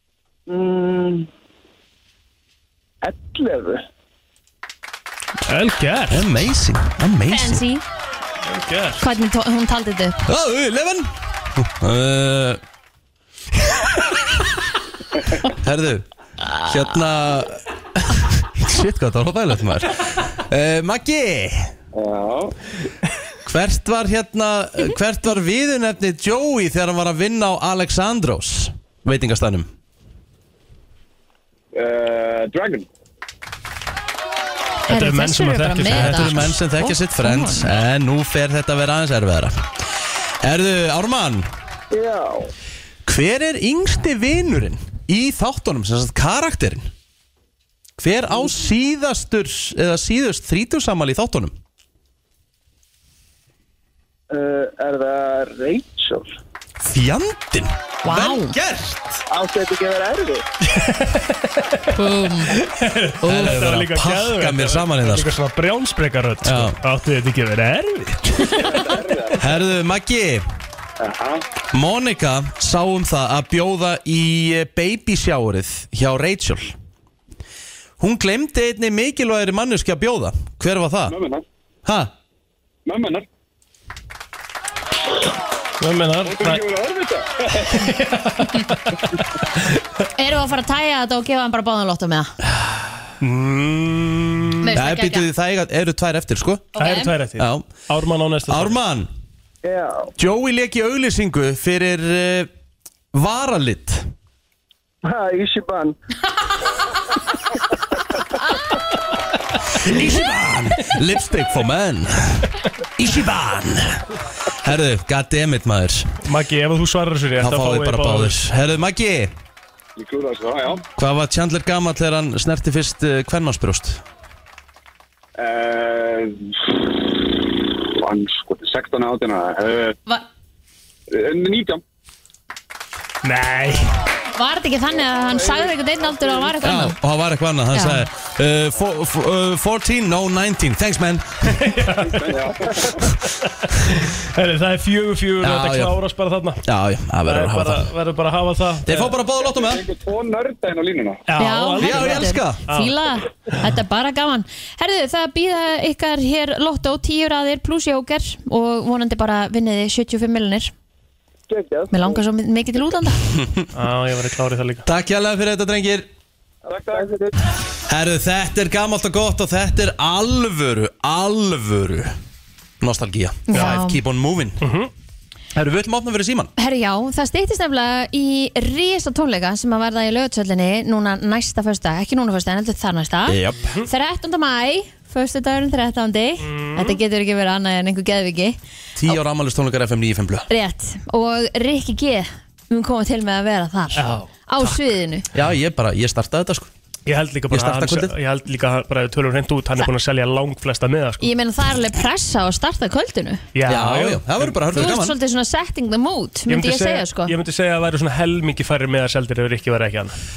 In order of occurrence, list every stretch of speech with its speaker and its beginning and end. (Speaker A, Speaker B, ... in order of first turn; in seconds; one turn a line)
Speaker A: 0.5-1.3
Speaker A: 3.0-3.8
Speaker B: 5.5-6.3
Speaker C: 6.1-7.6
Speaker D: 7.3-7.8
Speaker B: 8.4-9.0
Speaker D: 9.0-10.2
Speaker C: 10.3-12.6
Speaker C: 15.4-16.1
Speaker C: 16.6-21.7
Speaker E: 21.9-22.5
Speaker C: 23.4-29.7
Speaker E: 31.7-32.9
Speaker B: 34.9-36.6
Speaker D: 34.9-37.7
Speaker C: 35.9-39.8
Speaker C: 40.4-41.5
Speaker A: 41.9-42.5
Speaker C: 43.0-46.9
Speaker C: 48.0-51.5
Speaker A: 54.3-56.4
Speaker C: 56.8-59.2
Speaker D: 58.0-58.5
Speaker A: 59.3-60.4
Speaker B: 60.7-61.9
Speaker D: 61.9-62.6
Speaker B: 62.5-69.0
Speaker C: 63.2-65.3
Speaker C: 66.4-66.8
Speaker E: 68.7-69.3
Speaker C: 69.4-70.4
Speaker E: 71.0-71.4
Speaker C: 71.7-76.7
Speaker C: 78.0-81.2
Speaker E: 81.1-81.4
Speaker C: 81.8-82.1
Speaker E: 82.8-83.2
Speaker B: 85.8-86.6
Speaker E: 86.2-87.9
Speaker B: 87.7-88.9
Speaker D: 90.2-92.3
Speaker B: 93.2-94.7
Speaker D: 94.6-95.3
Speaker C: 94.8-96.7
Speaker D: 96.8-97.1
Speaker B: 96.8-98.8
Speaker C: 97.4-97.7
Speaker C: 98.5-99.1
Speaker A: 99.6-100.1
Speaker C: 100.2-102.5
Speaker C: 103.1-104.1
Speaker A: 105.0-106.0
Speaker C: 109.7-116.1
Speaker B: 116.2-118.3
Speaker C: 117.4-119.3
Speaker E: 120.0-120.8
Speaker C: 121.0-124.0
Speaker E: 125.4-126.8
Speaker E: 127.9-130.0
Speaker E: 131.1-131.8
Speaker B: 133.2-133.9
Speaker D: 134.3-137.0
Speaker C: 136.6-141.6
Speaker D: 137.7-138.1
Speaker B: 141.4-142.4
Speaker E: 142.0-142.9
Speaker B: 143.7-146.6
Speaker C: 145.4-146.0
Speaker C: 146.6-147.9
Speaker B: 147.2-149.1
Speaker C: 148.8-149.8
Speaker E: 149.5-151.2
Speaker B: 151.3-152.9
Speaker D: 151.4-160.7
Speaker C: 151.8-152.6
Speaker A: 161.5-162.2
Speaker D: 161.9-163.2
Speaker C: 163.4-163.7
Speaker B: 163.7-164.8
Speaker C: 164.8-166.1
Speaker E: 166.7-167.0
Speaker A: 166.9-167.3
Speaker C: 167.9-172.1
Speaker C: 172.8-174.6
Speaker D: 173.5-174.0
Speaker B: 174.6-174.9
Speaker C: 175.5-176.5
Speaker D: 176.6-188.6
Speaker C: 183.3-183.7
Speaker B: 186.4-187.0
Speaker C: 188.9-190.5
Speaker D: 190.5-195.3
Speaker B: 193.9-194.7
Speaker C: 195.3-196.7
Speaker B: 197.1-201.3
Speaker C: 197.5-198.1
Speaker D: 201.2-203.4
Speaker B: 203.5-204.5
Speaker C: 203.7-205.1
Speaker D: 204.7-207.3
Speaker B: 206.5-210.2